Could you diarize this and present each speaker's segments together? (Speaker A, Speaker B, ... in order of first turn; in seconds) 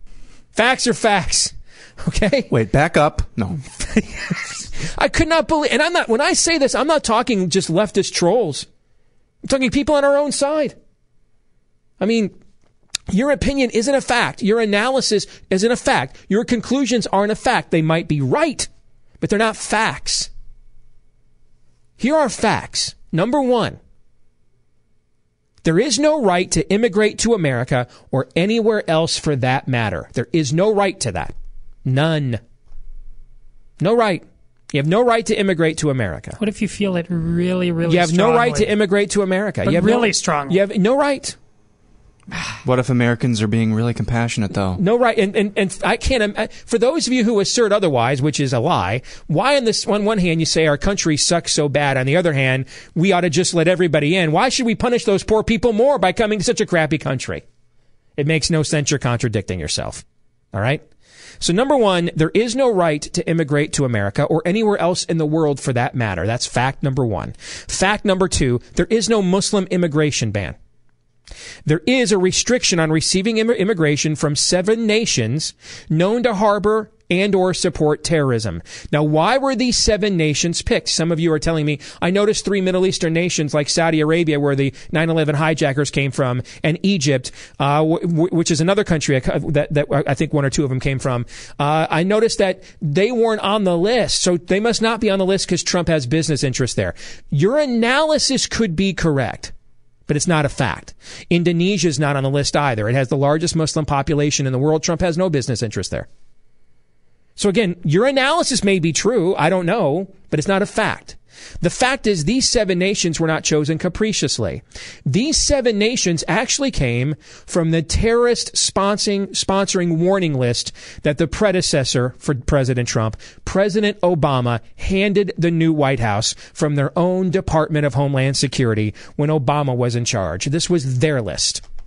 Speaker A: 0.6-2.5, 3.8-8.7, 9.4-10.8, 12.0-12.3, 13.1-18.7, 19.2-20.3, 22.0-23.8, 25.6-31.3, 31.9-32.4, 33.8-36.4, 37.9-41.4, 44.8-57.4, 58.2-60.8, 61.4-70.6, 71.7-99.5, 100.1-106.1, 107.4-131.6
Speaker B: 2.5-3.6, 42.6-44.8
Speaker C: 36.4-38.8, 39.6-40.6